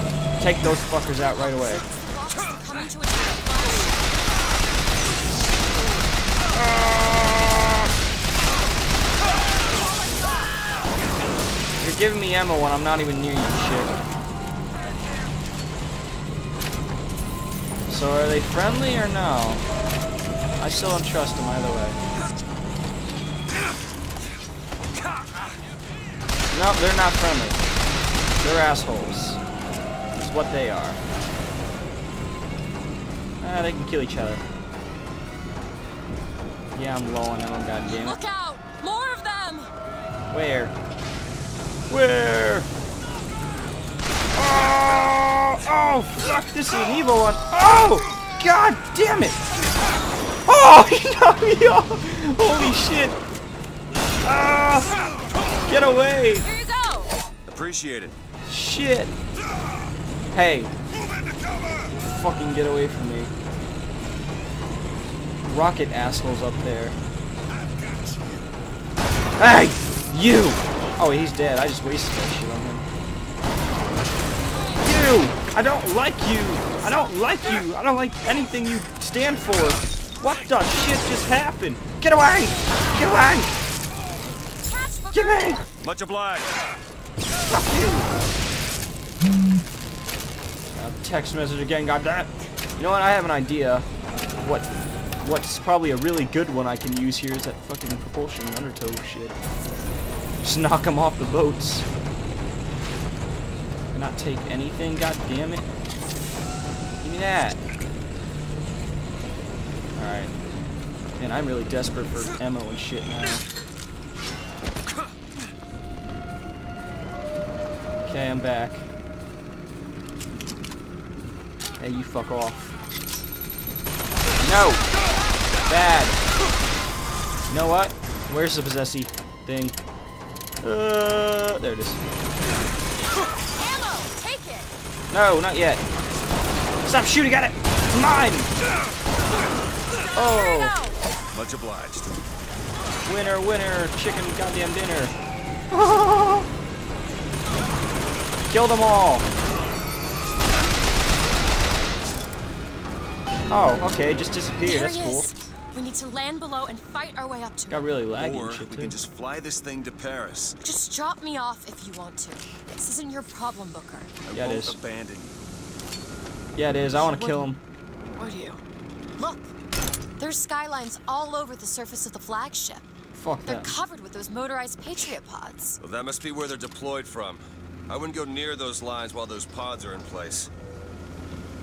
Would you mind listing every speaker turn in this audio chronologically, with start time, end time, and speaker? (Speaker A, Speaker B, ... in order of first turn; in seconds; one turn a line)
Speaker A: 0.4-1.9
Speaker B: 1.2-4.1
Speaker A: 6.5-7.8
Speaker A: 11.8-14.0
Speaker A: 17.9-19.7
Speaker A: 20.6-22.0
Speaker A: 26.5-27.6
Speaker A: 28.4-29.4
Speaker A: 30.1-31.0
Speaker A: 33.4-34.4
Speaker A: 36.7-38.2
Speaker B: 37.9-39.7
Speaker A: 40.3-40.8
Speaker A: 41.9-42.7
Speaker A: 44.4-49.4
Speaker A: 50.5-53.2
Speaker A: 54.2-55.0
Speaker A: 55.7-56.5
Speaker B: 56.4-57.1
Speaker C: 57.5-58.2
Speaker A: 58.5-59.1
Speaker A: 60.3-60.7
Speaker A: 61.9-63.3
Speaker A: 65.5-67.0
Speaker C: 67.6-68.5
Speaker A: 69.4-72.9
Speaker A: 74.8-83.5
Speaker B: 84.6-85.6
Speaker A: 85.1-85.6
Speaker C: 85.8-86.6
Speaker A: 87.5-88.1
Speaker A: 90.7-93.9
Speaker A: 94.4-99.4
Speaker A: 100.4-101.9
Speaker A: 103.9-105.7
Speaker A: 107.0-107.6
Speaker A: 110.0-110.3
Speaker A: 111.2-113.5
Speaker A: 118.0-118.9
Speaker A: 121.8-122.7
Speaker A: 124.4-124.9
Speaker A: 125.7-126.2
Speaker A: 127.5-129.8
Speaker A: 130.6-132.0
Speaker B: 133.3-134.7
Speaker A: 135.1-135.8
Speaker A: 136.8-138.5
Speaker B: 140.0-141.0
Speaker A: 140.2-140.8
Speaker C: 141.3-142.2
Speaker A: 143.1-145.2
Speaker A: 145.7-146.5
Speaker A: 148.5-149.3
Speaker A: 153.5-155.3
Speaker B: 154.6-157.9
Speaker A: 157.7-159.0
Speaker C: 158.2-160.6
Speaker B: 160.6-164.1
Speaker C: 164.3-165.3
Speaker A: 164.3-164.8
Speaker A: 166.6-167.6
Speaker B: 166.9-167.5
Speaker B: 168.2-168.6
Speaker B: 169.2-169.5
Speaker B: 170.2-172.9
Speaker A: 173.1-173.8
Speaker B: 173.4-175.8
Speaker C: 175.8-180.5